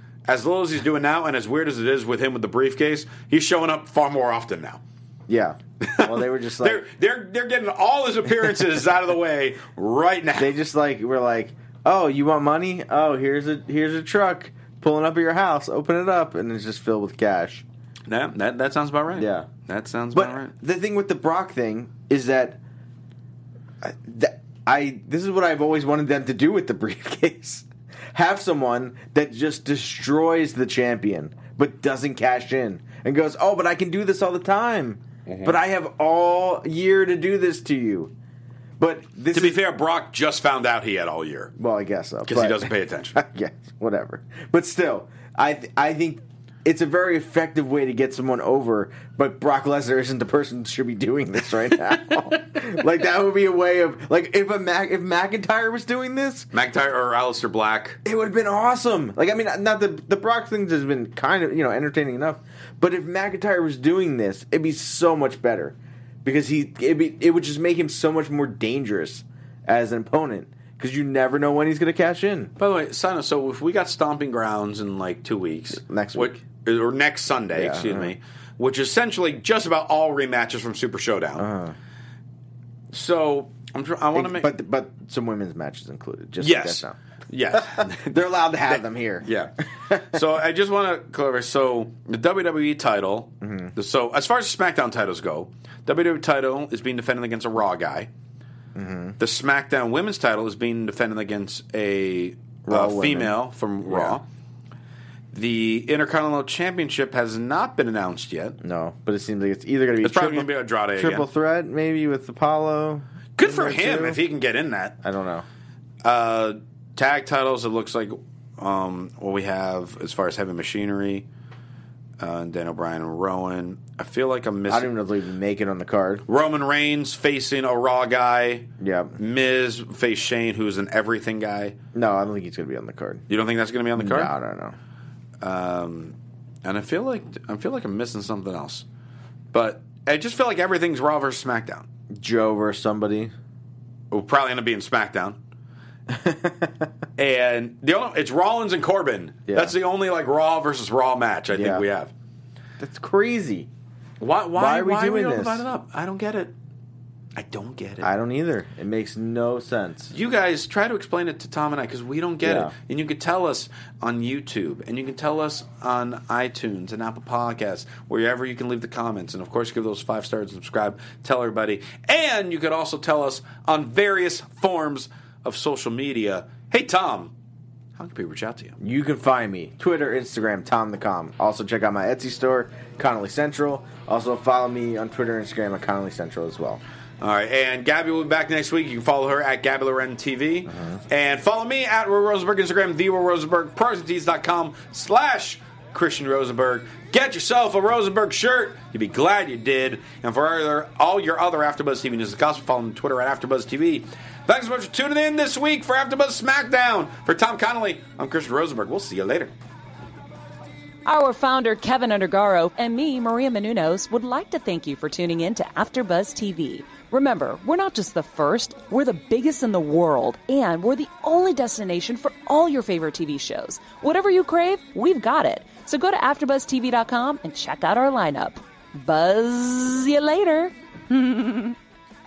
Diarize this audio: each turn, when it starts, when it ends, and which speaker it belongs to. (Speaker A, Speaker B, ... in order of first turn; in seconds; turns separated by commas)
Speaker A: 0.3-4.8, Speaker B: 5.3-6.8, Speaker A: 5.8-10.6, Speaker B: 10.3-17.6, Speaker A: 18.1-20.5, Speaker B: 19.1-19.5, Speaker B: 20.1-22.6, Speaker B: 23.8-38.1, Speaker A: 35.2-35.6, Speaker B: 38.8-39.6, Speaker A: 39.3-41.5, Speaker B: 41.5-56.5, Speaker A: 42.3-43.2, Speaker A: 56.5-58.0, Speaker B: 58.0-72.5, Speaker A: 72.6-81.5, Speaker B: 75.7-76.4, Speaker B: 77.5-78.1, Speaker B: 81.4-81.8, Speaker A: 82.9-84.5, Speaker B: 84.1-87.0, Speaker A: 86.4-88.0, Speaker B: 87.5-90.2, Speaker A: 88.7-98.1, Speaker B: 93.4-93.7, Speaker B: 98.7-99.2, Speaker A: 99.2-104.2, Speaker B: 102.7-104.2, Speaker A: 105.3-108.6, Speaker B: 108.6-114.2, Speaker A: 110.0-111.3, Speaker A: 113.4-115.0, Speaker B: 115.0-115.4, Speaker A: 116.0-121.3, Speaker A: 122.2-124.9, Speaker B: 124.7-126.2, Speaker A: 126.2-131.8, Speaker B: 128.8-129.2, Speaker B: 131.9-133.2, Speaker A: 133.3-134.3, Speaker B: 133.9-134.8, Speaker A: 135.4-138.8, Speaker A: 139.5-141.9, Speaker B: 142.1-143.3, Speaker A: 144.1-145.4, Speaker B: 146.1-146.9, Speaker A: 147.2-152.1, Speaker B: 149.5-149.7, Speaker B: 151.5-151.8, Speaker B: 152.8-153.7, Speaker A: 154.2-156.5, Speaker B: 154.5-155.6, Speaker A: 157.3-158.1, Speaker B: 158.0-160.1, Speaker A: 160.1-177.3, Speaker B: 162.4-162.7, Speaker A: 177.9-178.8, Speaker B: 178.8-186.8, Speaker A: 187.2-209.5, Speaker B: 190.7-191.0, Speaker C: 211.1-231.8